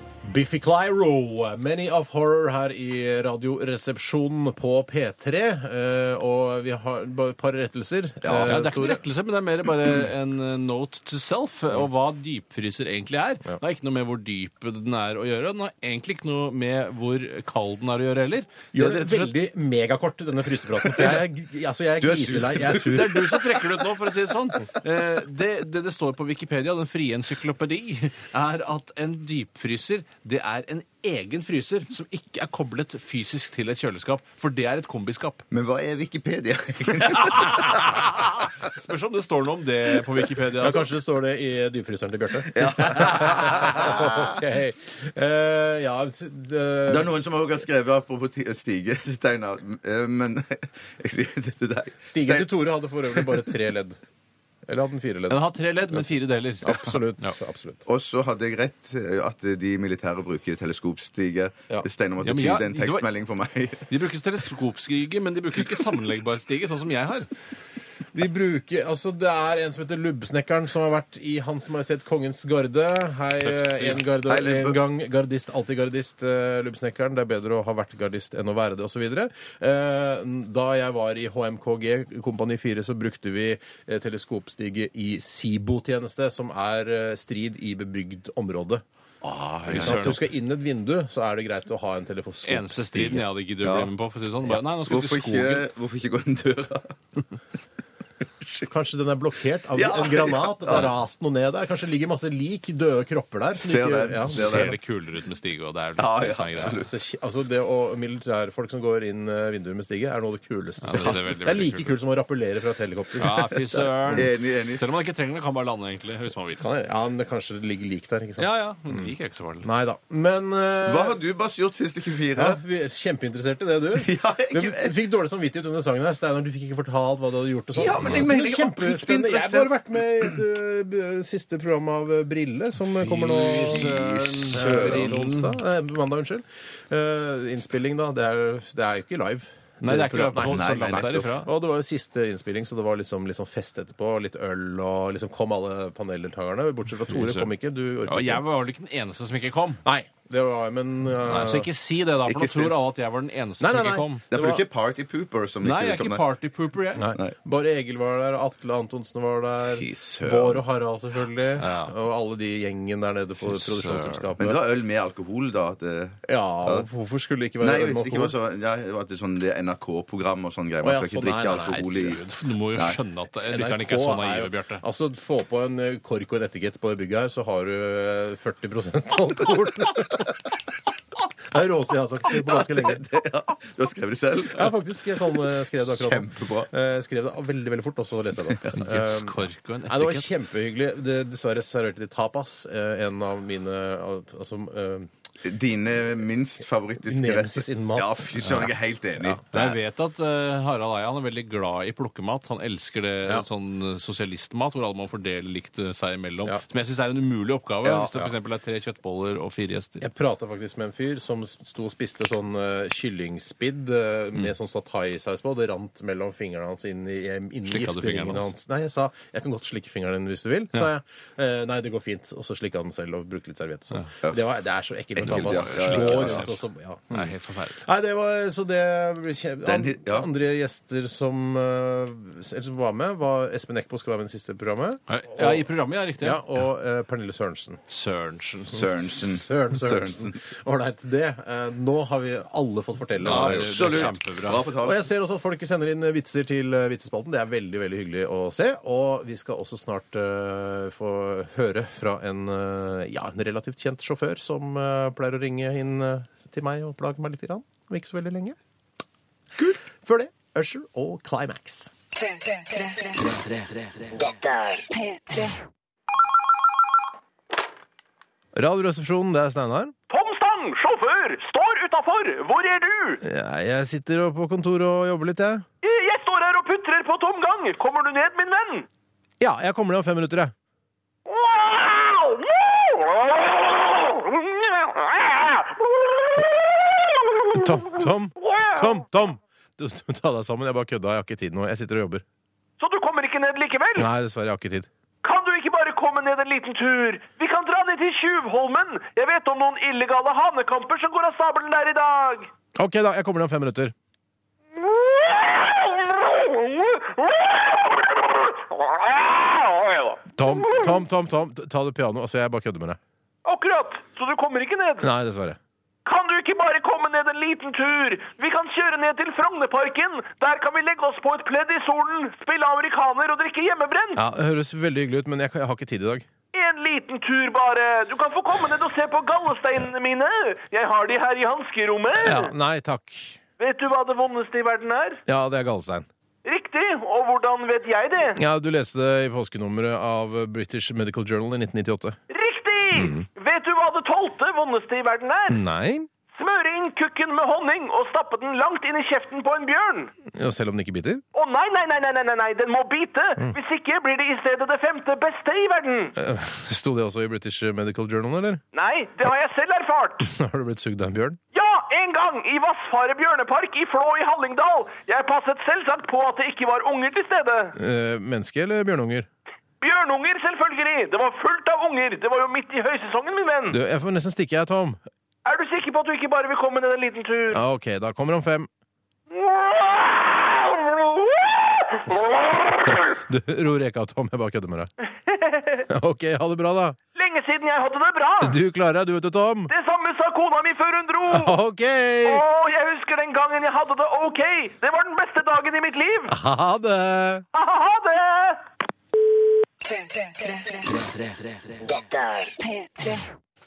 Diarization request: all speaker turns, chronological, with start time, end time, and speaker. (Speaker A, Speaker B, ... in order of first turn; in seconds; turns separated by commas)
Speaker A: 0.2-9.0, Speaker B: 8.2-8.6, Speaker C: 8.4-19.4, Speaker A: 18.7-23.4, Speaker B: 22.0-23.4, Speaker C: 22.7-35.4, Speaker B: 35.5-38.2, Speaker C: 37.0-40.9, Speaker A: 40.6-47.1, Speaker B: 42.5-44.4, Speaker B: 46.9-52.5, Speaker A: 52.1-54.0, Speaker B: 53.1-53.4, Speaker A: 54.7-55.4, Speaker C: 55.3-57.3, Speaker A: 56.6-57.8, Speaker B: 57.9-63.9, Speaker C: 62.2-63.1, Speaker C: 63.9-67.3, Speaker A: 68.1-88.8, Speaker C: 73.4-74.1, Speaker B: 74.2-74.8, Speaker C: 89.2-90.2, Speaker B: 89.6-90.2, Speaker A: 89.7-93.3, Speaker C: 92.4-95.7, Speaker B: 93.6-93.9, Speaker B: 94.5-97.0, Speaker A: 98.6-104.8, Speaker B: 99.7-100.9, Speaker B: 103.6-104.8, Speaker C: 104.3-106.8, Speaker B: 106.0-107.0, Speaker A: 106.6-113.5, Speaker C: 110.8-112.0, Speaker C: 113.2-116.6, Speaker B: 113.7-114.8, Speaker A: 116.6-119.0, Speaker C: 118.4-119.7, Speaker A: 119.6-121.2, Speaker B: 120.8-122.6, Speaker A: 122.3-133.9, Speaker B: 124.0-125.0, Speaker B: 127.7-130.3, Speaker C: 132.9-135.6, Speaker B: 133.4-135.2, Speaker A: 134.5-148.4, Speaker C: 139.8-141.5, Speaker B: 140.4-141.3, Speaker C: 147.1-147.5, Speaker C: 148.1-149.8, Speaker A: 149.8-151.7, Speaker C: 151.2-154.2, Speaker B: 152.3-152.8, Speaker A: 153.6-154.6, Speaker B: 154.3-156.2, Speaker C: 155.6-157.1, Speaker A: 157.0-164.6, Speaker B: 159.6-160.6, Speaker C: 161.6-161.9, Speaker C: 163.4-164.3, Speaker B: 164.4-166.9, Speaker A: 166.3-168.3, Speaker B: 167.6-172.2, Speaker A: 170.8-172.2, Speaker C: 171.7-174.8, Speaker A: 173.5-180.5, Speaker A: 181.5-183.2, Speaker B: 182.4-184.7, Speaker A: 184.5-195.1, Speaker B: 185.3-186.7, Speaker C: 188.7-190.3, Speaker B: 195.4-199.8, Speaker A: 197.0-198.4, Speaker C: 198.4-198.7, Speaker C: 199.5-210.1, Speaker B: 207.8-208.3, Speaker A: 210.0-235.7, Speaker C: 217.7-218.5, Speaker B: 225.2-226.5, Speaker C: 225.2-227.8, Speaker B: 229.7-230.3, Speaker C: 235.1-236.4, Speaker A: 236.2-237.8, Speaker C: 237.9-238.9, Speaker B: 238.7-240.4, Speaker A: 238.8-244.2, Speaker C: 243.2-244.7, Speaker B: 243.2-245.0, Speaker A: 244.8-258.6, Speaker A: 259.6-261.9, Speaker D: 262.3-263.3, Speaker D: 264.3-265.6, Speaker A: 268.6-269.9, Speaker E: 270.1-273.2, Speaker A: 273.2-275.6, Speaker E: 275.8-278.9, Speaker A: 279.4-280.5, Speaker E: 281.3-287.8, Speaker A: 287.5-292.2, Speaker E: 288.4-289.0, Speaker E: 292.8-294.1, Speaker A: 293.9-294.9, Speaker E: 295.2-302.5, Speaker A: 302.8-303.9, Speaker E: 304.8-311.0, Speaker A: 310.4-313.0, Speaker E: 313.4-315.1, Speaker A: 315.0-315.6, Speaker E: 316.1-324.2, Speaker A: 324.2-326.3, Speaker E: 326.5-332.5, Speaker A: 332.1-333.4, Speaker E: 333.6-335.2, Speaker A: 335.3-336.1, Speaker E: 336.4-338.4, Speaker A: 338.3-342.2, Speaker E: 342.3-345.6, Speaker A: 342.9-343.2, Speaker A: 345.5-346.1, Speaker E: 346.3-350.1, Speaker A: 350.3-351.2, Speaker E: 351.3-356.2, Speaker A: 356.2-358.6, Speaker E: 358.7-360.3, Speaker A: 360.2-361.4, Speaker E: 361.5-367.8, Speaker A: 367.8-369.3, Speaker E: 369.8-373.8, Speaker A: 373.7-375.0, Speaker E: 375.4-377.6, Speaker A: 377.5-378.7, Speaker E: 379.3-383.1, Speaker A: 383.0-384.9, Speaker E: 385.3-385.9, Speaker A: 385.9-387.0, Speaker E: 387.1-388.6, Speaker A: 388.4-389.7, Speaker E: 389.7-391.6, Speaker A: 391.3-392.4, Speaker E: 392.2-396.4, Speaker A: 396.3-397.4, Speaker E: 397.5-398.6, Speaker D: 400.0-400.9, Speaker B: 401.3-401.8, Speaker D: 401.9-403.3